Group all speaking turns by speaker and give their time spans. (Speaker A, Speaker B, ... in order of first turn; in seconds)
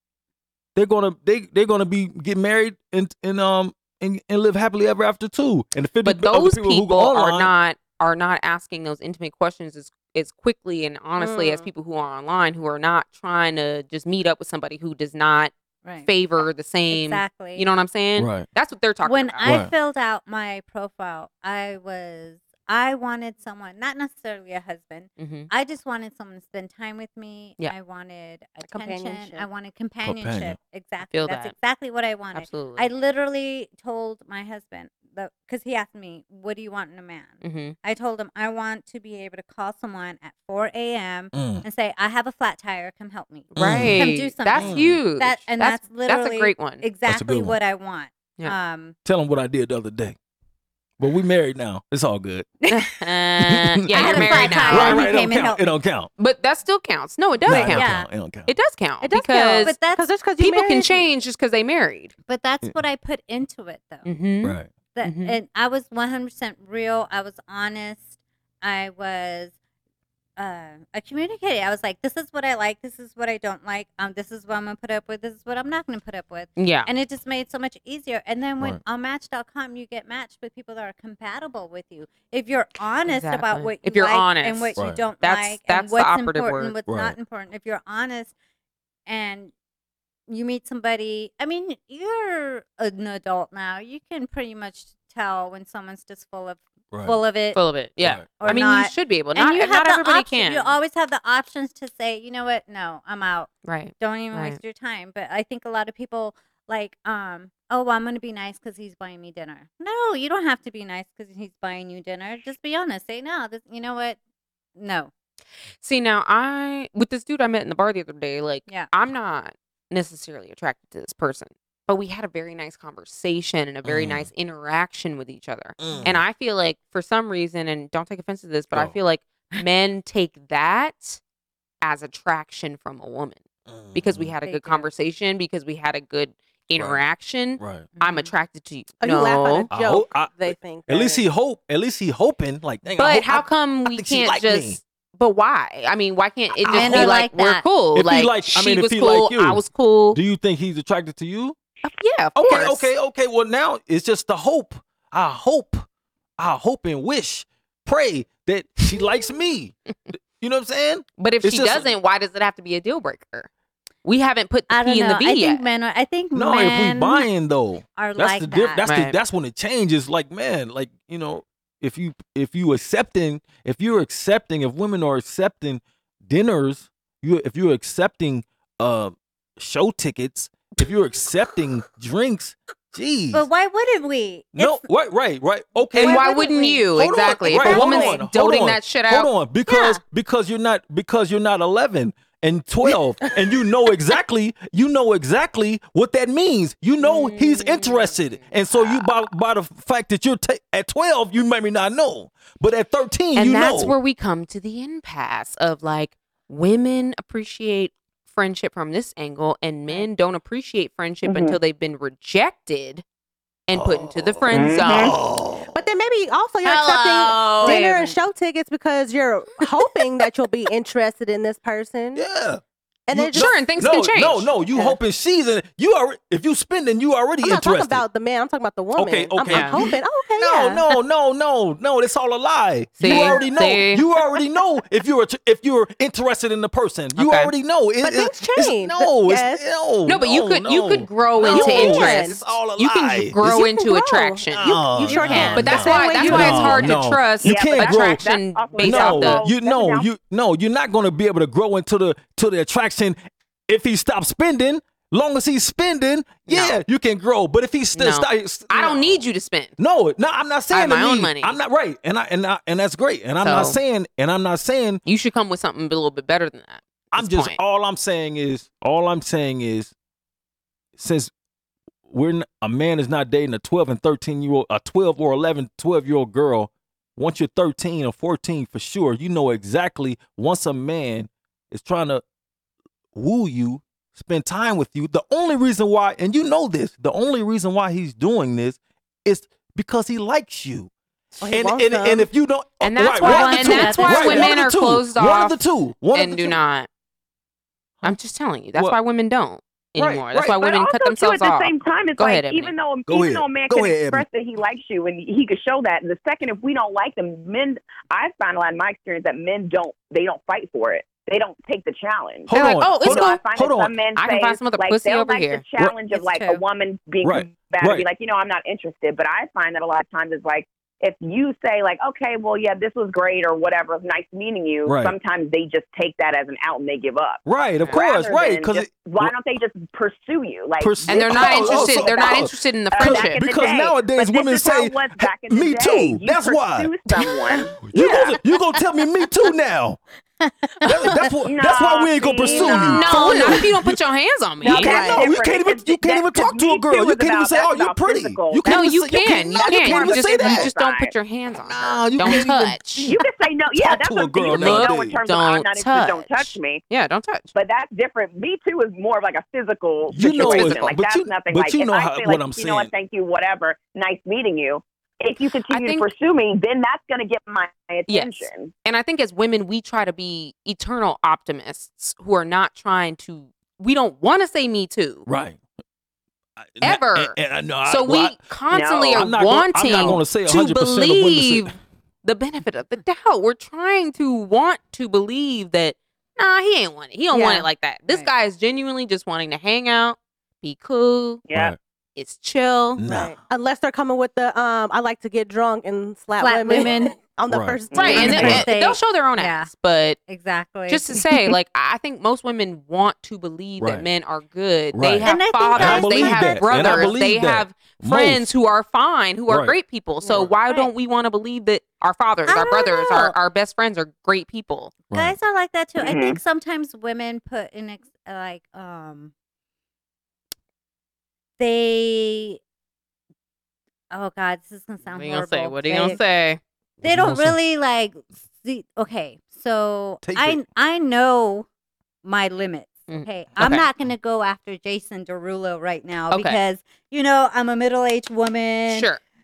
Speaker A: 0.8-7.5, 18.2-18.5, 19.4-19.7, 30.0-30.6, 41.3-41.7, 43.6-45.0, 47.0-47.6, 49.0-50.2, 51.0-52.6, 53.4-56.1, 57.4-58.5, 64.4-64.7, 84.8-85.1, 86.9-87.2, 96.9-97.2, 98.0-98.5, 123.8-124.3, 125.8-126.2, 133.7-134.3, 136.8-137.0, 137.6-137.9, 139.7-144.8, 146.6-147.2, 147.9-151.6, 152.4-155.9, 156.4-161.9, 166.3-183.5, 184.5-186.3, 186.9-203.9, 213.7-215.8, 222.2-228.0, 229.0-243.5, 244.5-248.2, 248.8-259.3, 259.8-265.0, 267.1-269.9, 271.0-271.3, 272.1-282.2, 283.1-290.9, 291.4-296.6, 300.0-300.6, 303.1-304.3, 312.5-314.0, 317.2-318.1, 324.9-325.1, 327.5-329.3, 330.8-340.0, 340.8-344.0, 344.7-350.7, 351.6-353.1, 353.8-355.2, 360.1-362.9, 375.3-375.6, 376.6-378.5, 379.1-381.7, 391.5-391.8, 393.0-393.4, 397.5-398.7, 403.8-404.1, 404.9-408.5, 409.5-409.8, 415.1-415.4, 427.0-427.6, 430.2-430.6
Speaker B: 6.0-15.5, 16.1-19.6, 25.2-25.5, 31.1-31.5, 32.3-32.9, 37.4-37.8, 43.5-46.9, 52.7-55.1, 56.2-59.8, 60.4-62.1, 64.0-65.4, 76.6-76.9, 83.1-86.8, 97.5-100.8, 103.7-104.6, 115.8-131.2, 131.8-133.4, 133.9-139.7, 143.0-150.2, 151.8-152.9, 161.2-163.5, 164.0-165.6, 168.9-169.2, 185.9-189.3, 197.0-199.1, 203.3-213.0, 213.7-215.2, 216.6-218.0, 223.3-224.5, 229.5-229.8, 233.0-234.1, 237.2-237.5, 240.1-249.4, 256.5-256.8, 257.9-259.8, 260.7-261.6, 263.4-263.8, 265.1-267.6, 292.8-295.6, 296.1-296.9, 298.0-302.7, 312.5-313.4, 314.2-315.6, 331.1-333.4, 342.7-345.1, 348.6-353.1, 354.5-357.5, 360.3-361.0, 365.7-366.1, 368.1-375.3, 376.8-391.4, 392.2-393.0, 397.9-400.2, 400.9-415.0, 425.1-426.6, 433.1-433.9, 436.3-436.6, 438.9-439.2
Speaker C: 11.2-11.7, 28.6-29.5, 59.0-61.1, 139.0-141.2, 215.7-222.2, 223.1-223.6, 224.7-225.0, 227.4-230.9, 233.0-233.4, 238.0-239.7, 241.4-242.4, 243.4-247.0, 291.4-292.3, 344.9-345.2, 387.3-387.6, 393.1-398.7, 410.2-410.5
Speaker D: 16.9-17.7, 19.0-49.0, 52.6-52.9, 53.9-55.7, 57.5-58.1, 59.6-60.1, 62.3-64.1, 64.9-68.1, 68.6-69.5, 70.4-88.3, 89.1-89.5, 90.3-97.6, 98.4-114.2, 114.8-115.1, 134.4-134.9, 138.0-138.3, 146.7-147.7, 164.7-167.3, 168.0-168.9, 183.3-184.9, 185.9-186.9, 187.4-188.2, 189.7-190.0, 217.6-218.2, 293.1-294.6, 316.1-316.6, 340.4-341.3, 342.8-343.6, 387.3-388.3, 396.4-397.2, 398.1-399.7, 400.3-401.2, 405.2-407.2, 410.3-410.9, 412.5-413.4, 415.1-419.3, 421.6-422.6, 424.1-426.2, 427.0-431.7, 432.2-439.1
Speaker E: 211.2-211.6, 214.5-215.2, 247.4-250.1, 300.5-338.4, 341.4-343.6, 344.6-348.7, 349.3-351.1, 353.1-356.8, 357.5-368.7, 378.7-379.3, 379.9-380.2, 391.5-391.7, 397.9-398.4, 416.0-416.4